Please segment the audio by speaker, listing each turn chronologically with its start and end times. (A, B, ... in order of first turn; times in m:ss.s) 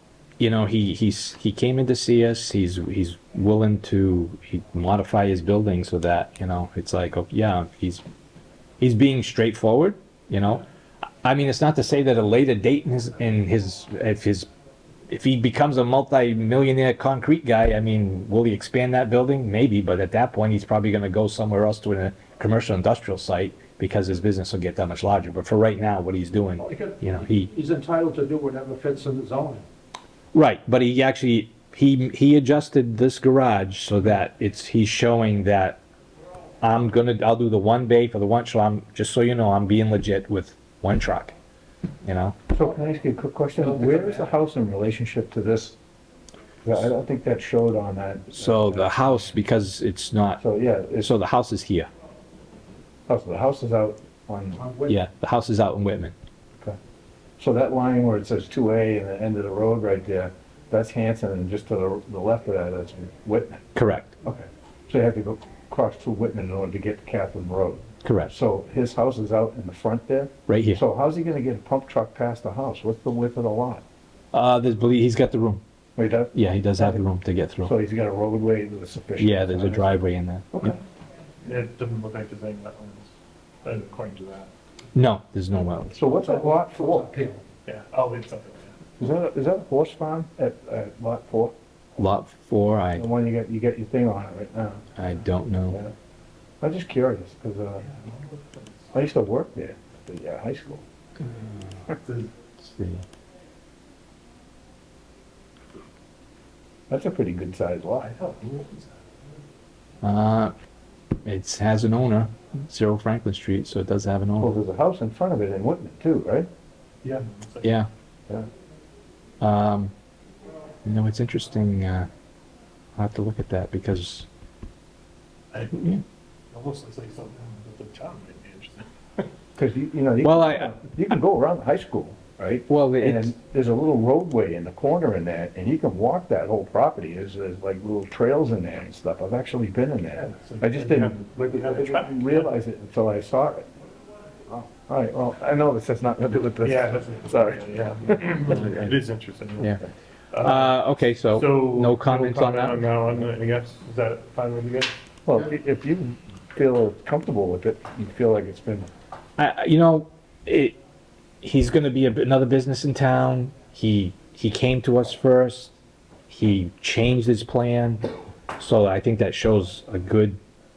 0:00.4-0:08.0 A
0:08.8-0:10.6 A
0:11.2-0:14.5 A
0:15.1-0:27.5 A
0:26.6-0:29.7 B
0:30.3-0:35.8 A
0:36.6-0:41.4 A
0:42.0-0:42.4 A
0:42.5-0:45.8 C
0:43.6-0:44.4 B
0:46.6-0:48.9 C
0:48.3-0:50.4 A
0:50.4-0:51.1 C
0:51.0-0:51.9 A
0:53.1-0:54.6 C
0:54.6-0:55.0 B
0:54.9-0:56.2 A
0:57.4-1:03.6 C
1:03.8-1:04.2 A
1:04.2-1:13.8 C
1:08.0-1:08.3 A
1:10.5-1:10.8 A
1:14.3-1:15.6 A
1:16.0-1:17.0 C
1:16.3-1:17.7 A
1:17.6-1:20.0 C
1:19.2-1:20.8 A
1:21.4-1:23.1 D
1:23.6-1:24.5 D
1:24.9-1:26.0 A
1:25.9-1:27.1 C
1:26.2-1:27.5 B
1:27.7-1:28.7 D
1:29.0-1:31.5 C
1:32.0-1:33.0 A
1:33.0-1:34.8 C
1:35.0-1:35.8 A
1:36.6-1:37.9 C
1:37.8-1:38.9 D
1:38.9-1:40.8 C
1:41.9-1:42.3 D
1:42.6-1:43.0 A
1:46.9-1:48.1 C
1:48.0-1:49.2 D
1:50.0-1:50.5 A
1:51.2-1:54.5 A
1:54.4-1:56.5 C
1:57.0-1:57.8 D
1:57.6-1:57.9 A
1:59.4-1:59.9 A
2:00.8-2:02.1 A
2:03.0-2:04.3 A
2:05.5-2:05.9 D
2:05.7-2:06.0 A
2:06.5-2:09.3 D
2:09.6-2:23.7 C
2:10.2-2:10.8 A
2:12.7-2:13.3 A
2:20.2-2:22.5 D
2:24.5-2:28.7 C
2:26.6-2:29.8 D
2:30.3-2:30.8 D
2:30.4-2:32.8 A
2:31.3-2:34.9 D
2:35.3-2:38.9 C
2:39.4-2:40.8 A
2:41.4-2:45.7 A
2:46.3-2:48.0 A
2:48.6-2:50.4 A